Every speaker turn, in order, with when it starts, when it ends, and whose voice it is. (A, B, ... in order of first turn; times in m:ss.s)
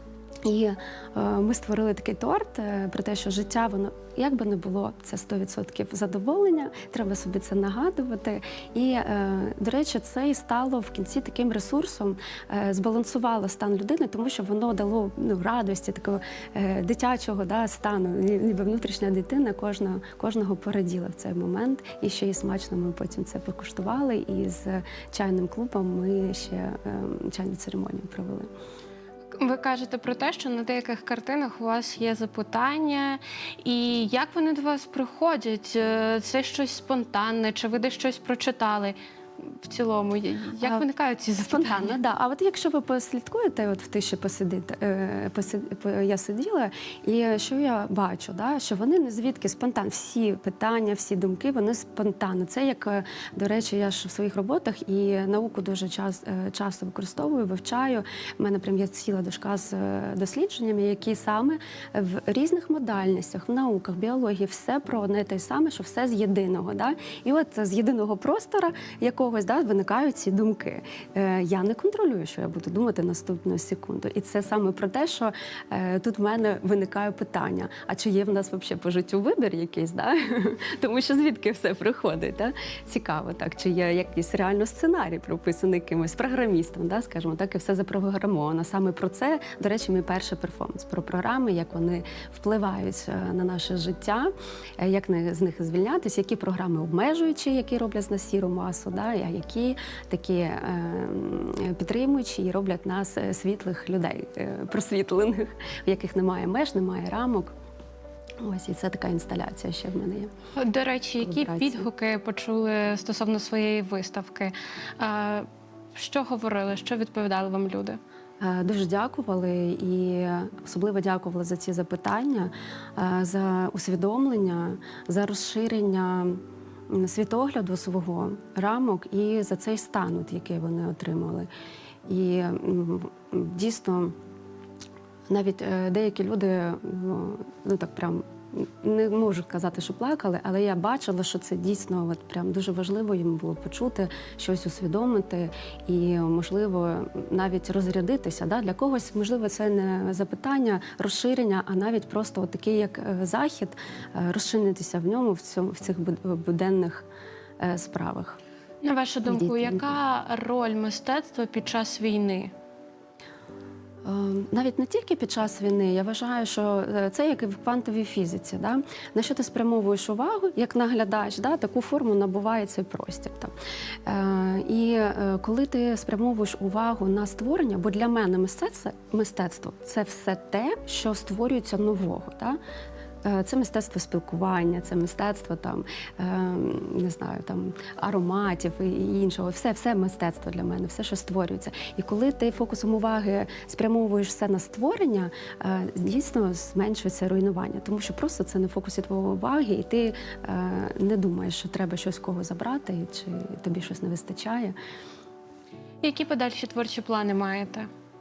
0:00.4-0:28.5 A
0:29.3-0:42.0 B
0:41.4-1:47.5 A
1:48.4-1:50.3 A
1:50.6-1:58.0 B
1:51.2-1:51.9 A
1:58.4-2:11.5 A
2:12.1-2:14.1 A
2:15.3-2:37.0 A
2:37.6-2:38.4 A
2:38.8-2:42.5 B
2:39.2-2:39.9 A
2:44.0-2:53.5 A
2:54.0-3:02.6 A
3:03.2-3:24.8 A
3:26.0-3:27.9 B